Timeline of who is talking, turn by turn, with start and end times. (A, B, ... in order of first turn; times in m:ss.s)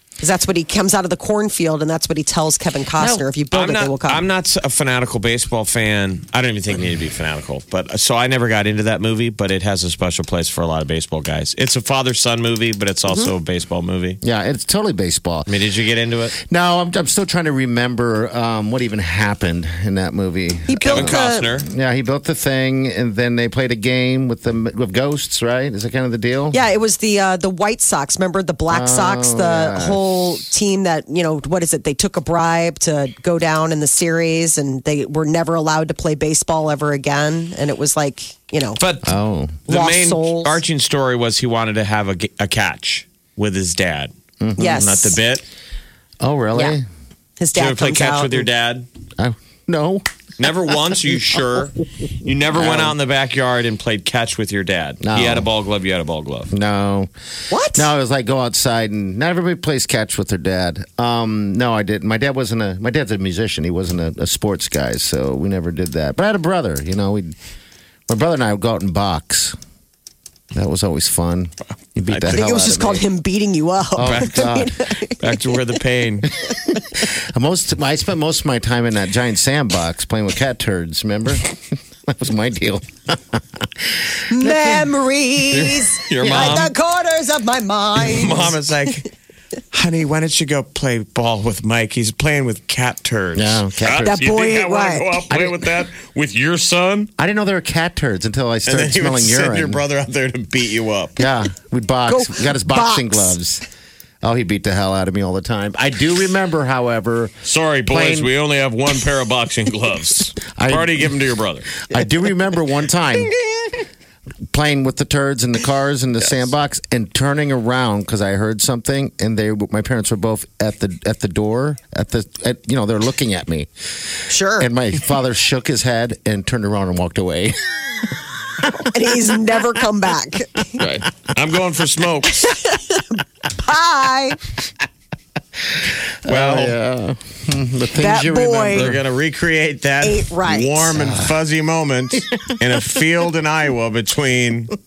0:00.2-0:04.2 A
0:03.0-0:03.2 B
0:03.5-0:14.2 C
0:14.2-0:15.5 B
0:15.5-0:16.4 C
0:16.4-0:26.6 B
0:20.7-0:21.4 A
0:20.8-0:21.7 C
0:26.5-0:38.8 A
0:28.7-0:30.2 B
0:38.8-0:39.1 C
0:39.0-0:39.6 B
0:39.7-0:44.1 C
0:39.7-0:40.6 A
0:44.4-0:44.9 B
0:44.6-0:45.1 A
0:44.6-0:45.4 C
0:46.2-0:46.8 B
0:47.4-0:48.4 A
0:47.5-0:48.9 C
0:49.2-0:50.0 B
0:50.4-0:56.5 C
0:52.5-0:52.9 B
0:55.0-0:55.5 B
0:56.5-0:57.1 B
0:57.5-0:57.9 A
0:57.7-1:07.3 B
1:08.1-1:09.6 B
1:10.5-1:13.0 B
1:12.1-1:12.4 C
1:12.3-1:15.2 A
1:14.0-1:14.7 B
1:14.0-1:14.6 C
1:15.2-1:16.3 C
1:16.4-1:24.2 B
1:24.3-1:28.5 A
1:25.5-1:26.7 C
1:28.0-1:29.1 C
1:29.7-1:37.1 C
1:33.3-1:34.2 B
1:34.0-1:35.1 A
1:35.3-1:35.7 B
1:37.2-1:39.8 B
1:38.6-1:41.2 C
1:41.2-1:43.6 B
1:42.1-1:43.4 A
1:44.2-1:47.3 B
1:47.4-1:51.8 C
1:47.9-1:48.3 B
1:50.5-1:51.1 B
1:51.8-1:53.3 B
1:54.5-2:03.7 B
2:04.3-2:04.7 A
2:04.6-2:07.7 B
2:08.8-2:10.8 A
2:10.8-2:11.1 B
2:11.3-2:12.5 C
2:12.4-2:13.0 A
2:13.6-2:14.4 A
2:15.8-2:19.0 B
2:16.2-2:16.8 C
2:18.0-2:18.9 A
2:18.7-2:24.7 C
2:20.0-2:20.9 A
2:20.9-2:21.3 B